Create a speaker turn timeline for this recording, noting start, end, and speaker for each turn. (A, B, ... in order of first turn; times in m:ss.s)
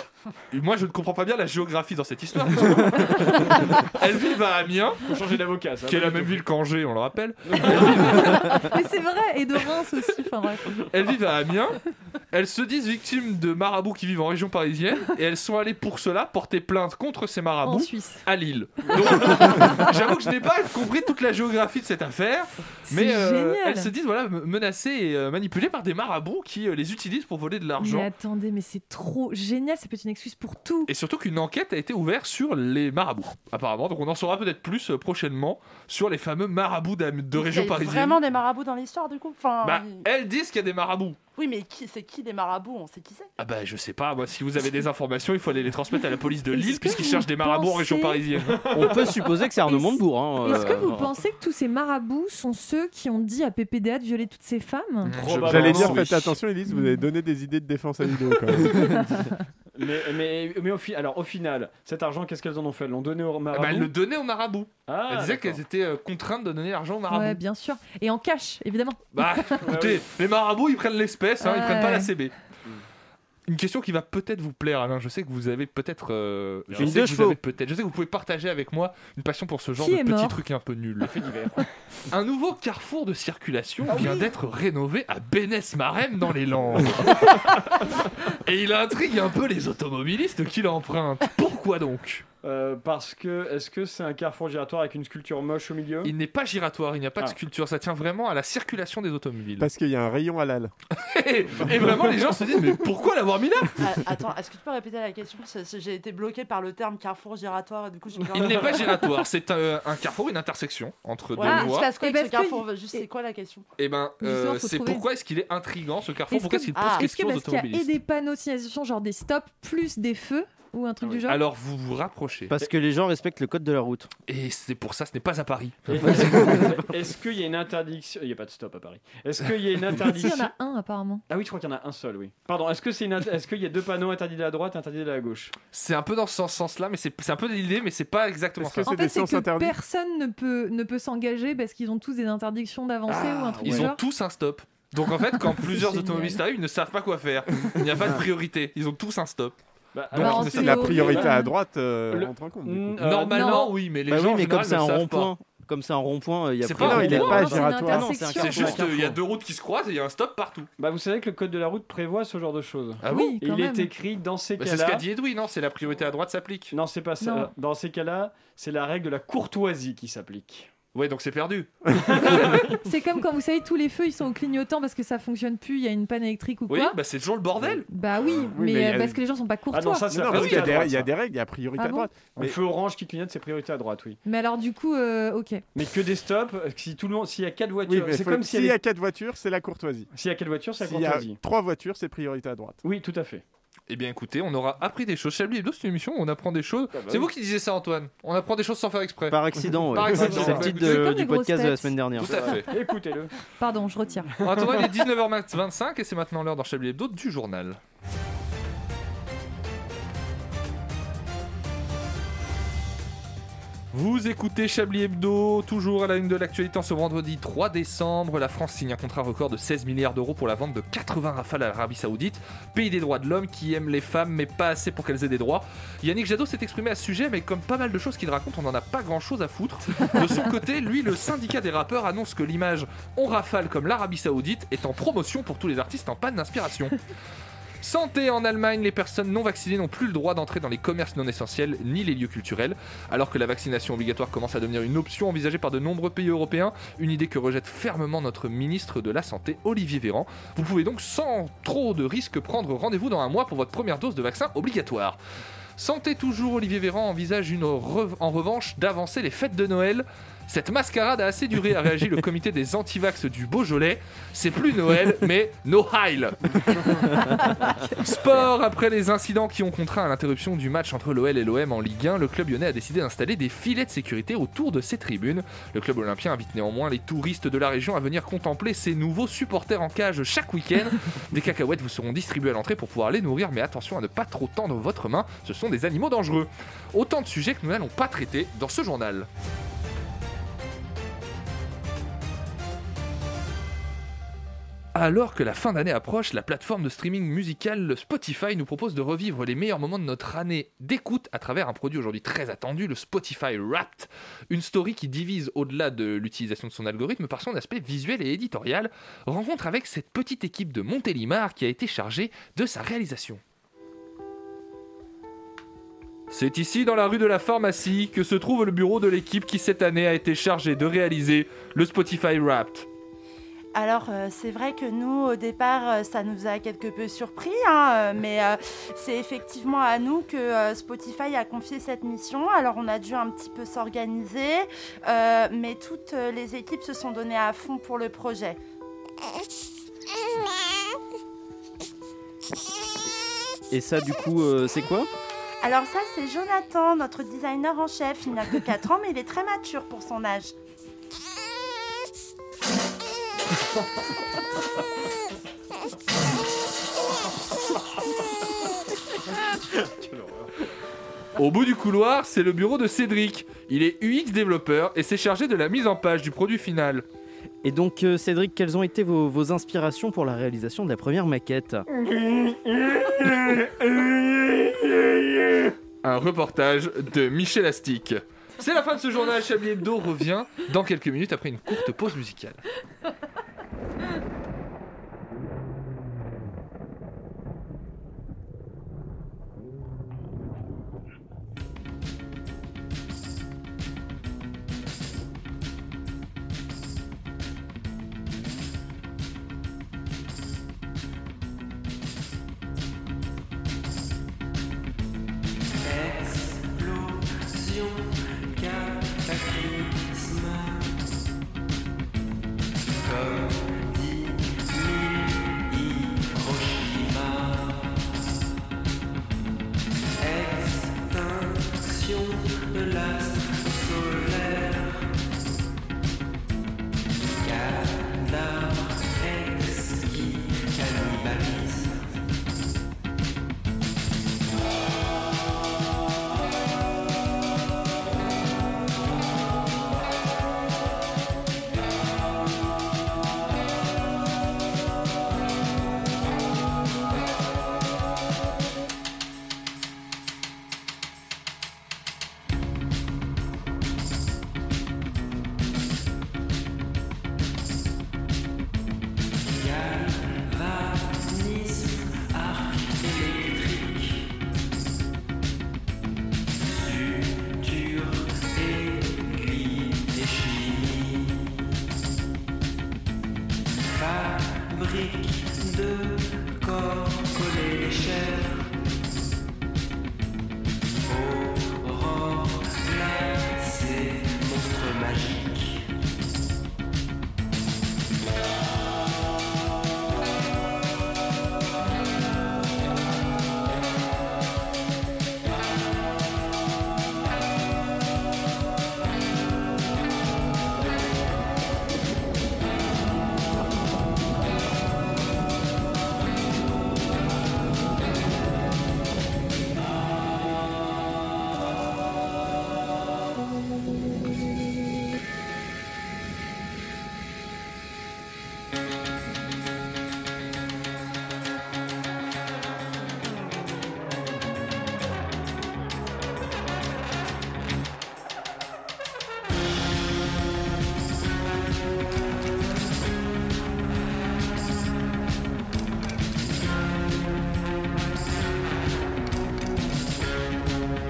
0:00.5-0:05.1 A
0:05.0-0:06.4 B
0:05.8-0:08.6 A
0:07.4-0:08.7 B
0:08.1-0:10.8 C
0:10.8-0:11.8 A
0:12.3-0:28.1 A
0:17.6-0:18.2 C
0:19.1-0:20.0 C
0:22.8-0:23.9 C
0:27.8-0:30.9 C
0:30.9-0:38.2 A
0:37.4-0:40.0 D
0:39.6-0:41.2 A
0:41.4-0:43.3 D
0:43.4-0:48.7 A
0:46.5-0:48.3 C
0:48.5-0:49.2 B
0:48.7-0:51.2 E
0:49.4-0:55.3 C
0:55.0-0:56.4 A
0:55.1-0:56.2 B
0:55.5-0:59.0 F
0:56.7-0:57.1 C
0:58.5-0:59.4 C
0:59.7-1:03.9 B
1:03.5-1:07.4 A
1:04.9-1:05.6 B
1:07.1-1:09.7 C
1:09.1-1:12.3 A
1:09.6-1:10.0 B
1:11.4-1:12.1 C
1:13.5-1:21.1 A
1:16.7-1:17.0 B
1:16.8-1:17.4 E
1:19.8-1:20.4 C
1:21.0-1:21.7 B
1:22.1-1:32.2 A
1:23.9-1:24.2 B
1:32.4-1:36.1 B
1:36.0-1:39.7 A
1:39.6-1:40.7 F
1:40.9-1:43.8 A
1:41.5-1:41.9 B
1:43.8-1:49.1 D
1:48.3-1:51.9 A
1:51.4-1:53.6 D
1:51.4-1:53.0 C
1:53.8-1:57.9 A
1:54.2-1:55.0 C
1:56.3-2:01.4 C
1:56.7-1:57.0 D
2:01.0-2:01.3 B
2:01.3-2:02.5 A
2:02.5-2:04.1 E
2:04.3-2:06.7 A
2:05.9-2:10.5 B
2:09.9-2:11.2 C
2:11.3-2:15.5 B
2:15.7-2:18.9 A
2:18.6-2:19.8 F
2:18.8-2:24.0 C
2:23.1-2:23.9 B
2:23.6-2:29.6 A
2:25.4-2:26.4 C
2:29.9-2:31.4 B
2:30.1-2:31.0 A
2:30.2-2:31.5 C
2:30.4-2:33.0 F
2:32.1-2:33.7 B
2:33.0-2:35.3 A
2:33.3-2:33.7 C
2:34.1-2:39.2 E
2:36.6-2:37.3 A
2:36.8-2:38.1 F
2:37.0-2:38.8 C
2:38.3-2:40.7 A
2:40.8-2:45.0 B
2:43.0-2:43.3 A
2:43.1-2:43.9 C
2:44.6-2:46.8 A
2:46.7-2:50.7 B
2:47.2-2:47.5 C
2:50.9-2:52.6 A
2:52.0-2:52.8 B
2:52.4-2:57.0 C
2:56.7-2:57.9 A
2:57.9-3:00.1 C
2:58.5-2:59.2 F
2:59.7-3:01.1 B
3:00.0-3:02.6 F
3:00.3-3:00.7 A
3:01.8-3:02.1 C
3:02.3-3:04.2 B
3:04.2-3:05.6 C
3:05.7-3:08.8 B
3:07.8-3:10.1 F
3:10.1-3:11.4 B
3:10.8-3:12.8 F
3:12.8-3:13.4 B
3:13.9-3:21.1 A
3:16.9-3:17.3 B
3:19.3-3:22.6 E
3:20.1-3:20.7 B
3:20.7-3:22.1 C
3:22.2-3:22.7 A
3:22.4-3:23.3 B
3:23.6-3:24.3 C
3:24.4-3:27.8 A
3:33.9-3:57.0 A
3:57.8-4:15.2 A
4:15.8-4:27.1 A
4:27.2-4:27.9 C
4:27.9-4:49.3 A
4:54.9-5:13.4 A
5:16.3-5:22.9 A
5:23.7-5:38.6 D
5:43.7-5:45.1 E
5:45.6-5:50.5 D
5:59.8-6:00.4 B
6:01.4-6:07.0 A
6:07.6-6:11.8 E
6:12.3-6:14.8 B
6:16.0-6:22.6 A
6:45.8-6:51.0 G
6:53.0-6:58.2 G
7:00.2-7:05.2 G
7:07.4-7:12.2 G
7:39.4-7:44.3 G
7:46.6-7:51.6 G
7:53.8-7:58.7 G
8:01.0-8:05.9 G